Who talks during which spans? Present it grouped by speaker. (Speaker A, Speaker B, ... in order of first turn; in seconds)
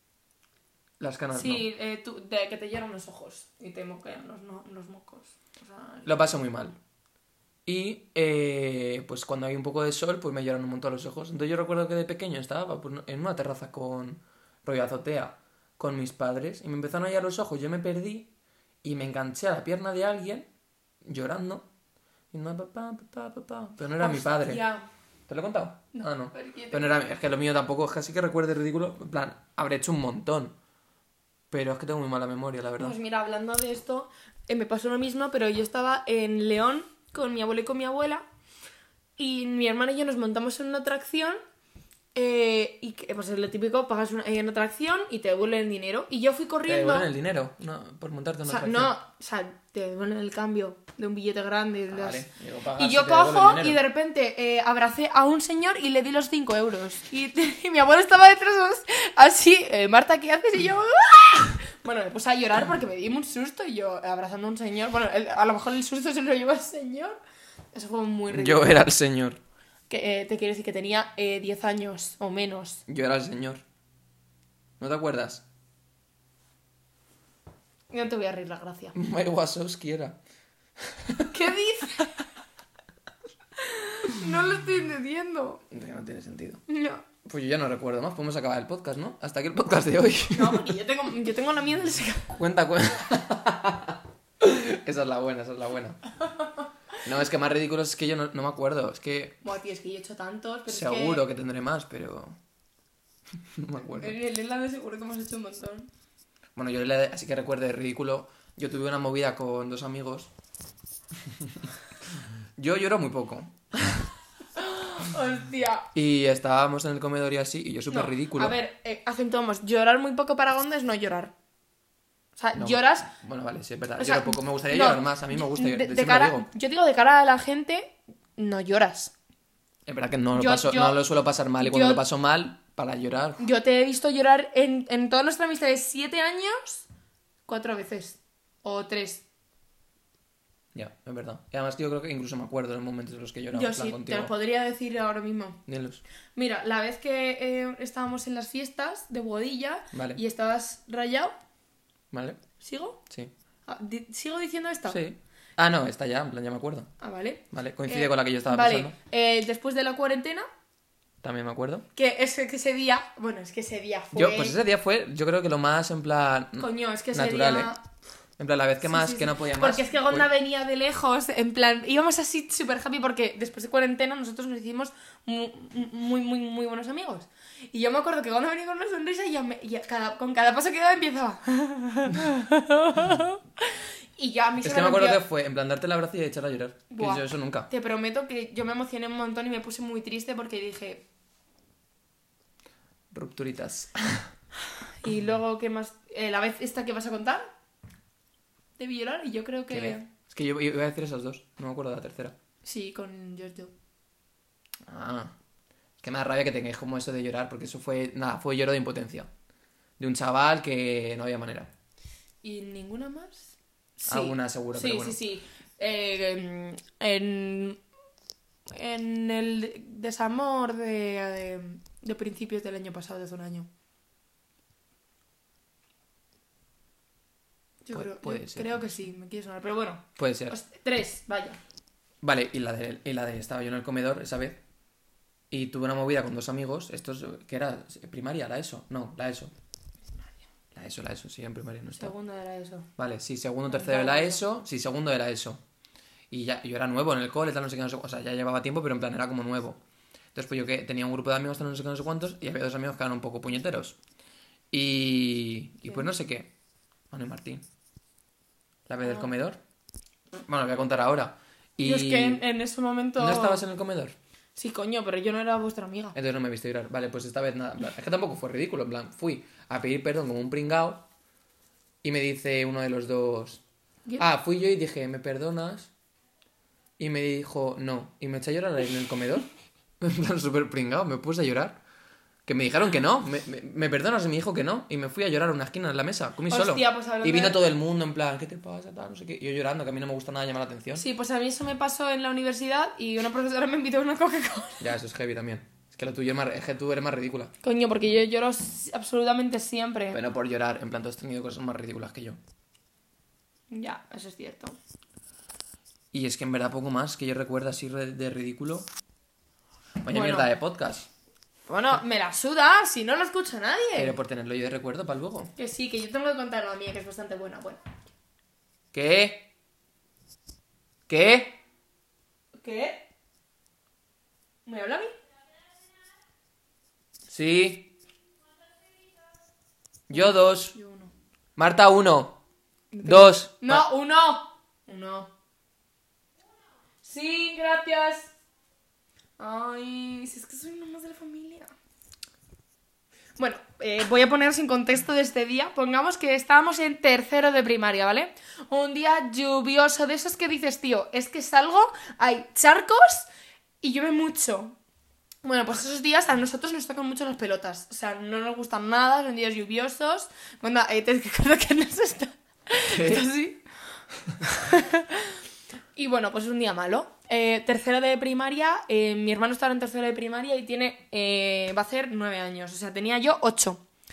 Speaker A: 1.0-1.7, 6.0-6.8, 7.7-18.3, 18.8-20.5, 21.0-21.7, 22.3-24.6, 25.3-30.6, 31.5-33.0, 46.7-48.9, 51.9-53.8, 68.3-69.4, 72.9-73.6, 74.8-75.5, 78.9-80.2, 80.8-81.3, 85.7-86.6, 87.2-90.7, 92.3-96.0, 97.0-99.4, 100.7-102.4, 103.5-104.2, 106.6-110.3, 111.4-111.7, 112.6-114.1, 115.9-118.6, 122.6-126.5, 129.9-133.5, 140.7-144.3, 145.7-146.0, 149.9-150.2, 152.1-152.4, 154.9-156.9, 157.5-158.9, 161.2-161.9, 164.1-167.7, 168.4-170.3, 184.6-187.7, 193.1-194.3, 199.7-202.4, 204.9-205.3, 206.0-209.3, 210.0-211.7, 214.1-215.2, 227.9-228.9, 230.2-230.6, 232.2-234.6, 235.5-239.5, 240.7-242.1, 243.0-245.6, 246.3-249.8, 250.3-254.0, 254.7-256.5, 257.1-257.6, 258.9-259.6, 260.5-262.4, 263.2-264.2, 266.1-271.1, 272.0-273.6, 274.2-275.9, 277.0-279.5, 280.0-281.8, 282.5-291.1, 294.8-297.5, 300.1-302.4, 306.1-308.9, 310.0-311.1, 314.0-315.5, 318.9-319.5, 321.1-321.6, 327.3-327.9, 330.1-330.8, 331.6-332.4, 333.0-333.9, 362.9-363.2
Speaker B: 1.3-6.3, 24.0-24.9, 25.9-26.9, 32.8-38.2, 39.2-41.4, 42.1-47.1, 48.5-52.2, 52.8-67.2, 67.7-68.8, 69.9-72.8, 77.9-79.0, 81.3-82.2, 83.6-85.6, 86.7-87.0, 90.3-92.3, 99.4-101.2, 103.9-105.9, 114.6-115.9, 117.9-121.3, 122.4-123.1, 124.0-129.1, 130.3-131.0, 131.6-132.0, 133.4-136.9, 137.5-139.2, 143.5-145.6, 146.3-151.3, 152.6-153.0, 153.7-155.0, 157.0-160.5, 161.9-164.6, 166.6-167.8, 168.8-185.2, 186.9-191.0, 195.0-197.5, 198.8-200.1, 202.6-203.7, 212.4-217.8, 218.7-223.7, 227.8-231.6, 242.0-242.9, 243.7-244.4, 259.0-259.3, 261.8-263.6, 264.6-266.2, 286.5-287.6, 290.9-294.9, 297.6-300.2, 303.7-304.8, 310.1-310.5, 311.7-314.2, 315.6-317.8, 322.6-323.0, 324.6-325.1, 330.1-331.1, 332.9-335.3, 337.0-338.3, 339.4-341.7, 343.4-353.3, 353.8-354.8, 355.4-363.6, 364.4-365.4, 366.0-373.8